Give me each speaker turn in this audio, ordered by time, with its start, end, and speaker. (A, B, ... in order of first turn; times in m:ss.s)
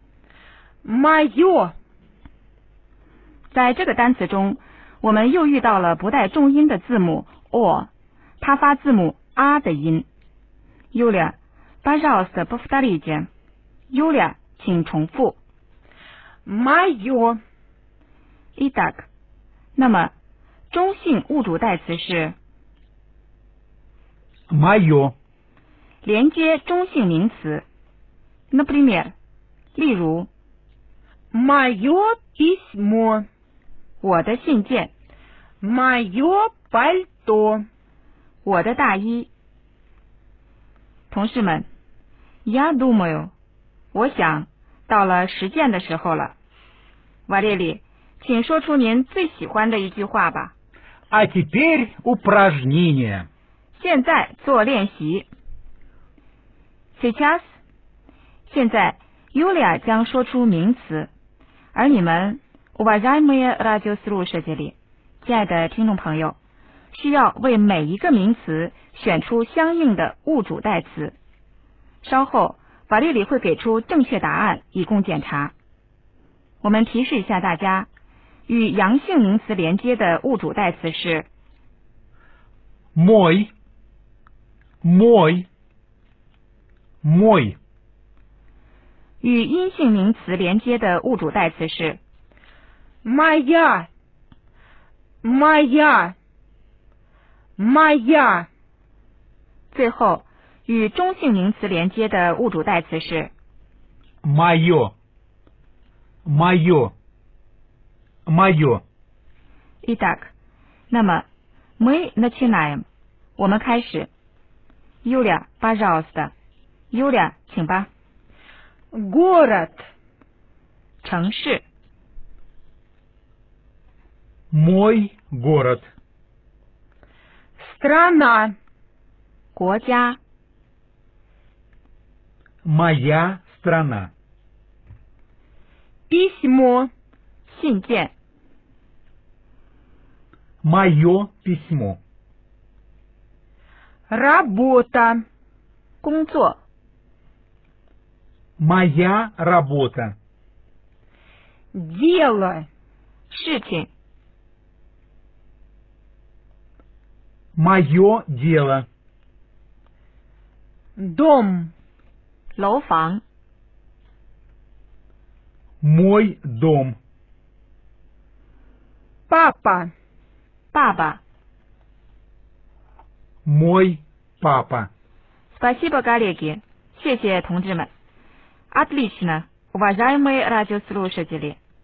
0:00.8-0:01.7 A
0:03.5-0:07.9 B
0:08.4-0:10.1 B
0:10.9-0:13.3 B
0:13.9-0:15.4 B
0:16.5-0:17.4 A
0:18.6-0:19.1 B
0:19.8-0:20.1 B
0:20.7-0:22.4 B
0:24.5-0:25.2 C
0:26.0-0:27.6 B
0:28.5-0:29.1 B
0:29.8-0:30.3 B
0:31.3-0:33.2 A
0:34.0-0:34.9 B
0:35.6-0:37.6 A
0:38.4-0:39.3 B
0:41.1-0:41.7 B
0:42.4-0:43.3 B
0:43.9-0:46.4 B
0:47.3-0:50.5 B
0:51.1-0:53.3 C
0:53.8-0:55.3 B
0:57.0-0:57.4 B
0:58.5-1:01.1 B
1:01.7-1:06.4 B
1:06.9-1:11.2 B
1:12.0-1:15.5 B
1:16.6-1:17.9 B
1:18.5-1:21.3 B
1:23.0-1:23.5 C
1:24.8-1:25.5 C
1:27.0-1:27.6 C
1:29.2-1:32.0 B
1:33.0-1:33.9 A
1:35.2-1:36.2 A
1:37.6-1:38.5 A
1:39.7-1:43.3 B
1:44.2-1:44.9 C
1:46.2-1:46.9 C
1:48.3-1:48.8 C
1:49.8-1:50.3 B
1:50.9-1:51.3 B
1:51.8-1:52.8 B
1:53.4-1:54.1 B
1:55.0-1:56.3 B
1:56.9-1:57.9 B
1:58.9-1:59.8 A
2:01.0-2:01.6 B
2:04.5-2:05.9 C
2:07.6-2:08.6 A
2:09.6-2:10.2 B
2:12.6-2:14.1 C
2:16.1-2:16.9 A
2:17.5-2:18.1 B
2:20.6-2:22.0 C
2:24.1-2:25.2 A
2:26.0-2:26.6 B
2:28.6-2:30.2 C
2:31.7-2:32.7 A
2:33.3-2:33.9 B
2:37.6-2:38.9 C
2:41.0-2:41.7 A
2:42.6-2:43.2 B
2:45.8-2:47.0 C
2:49.3-2:49.9 A
2:50.7-2:51.2 B
2:53.4-2:54.9 C
2:55.5-2:57.9 B
2:58.7-3:01.6 B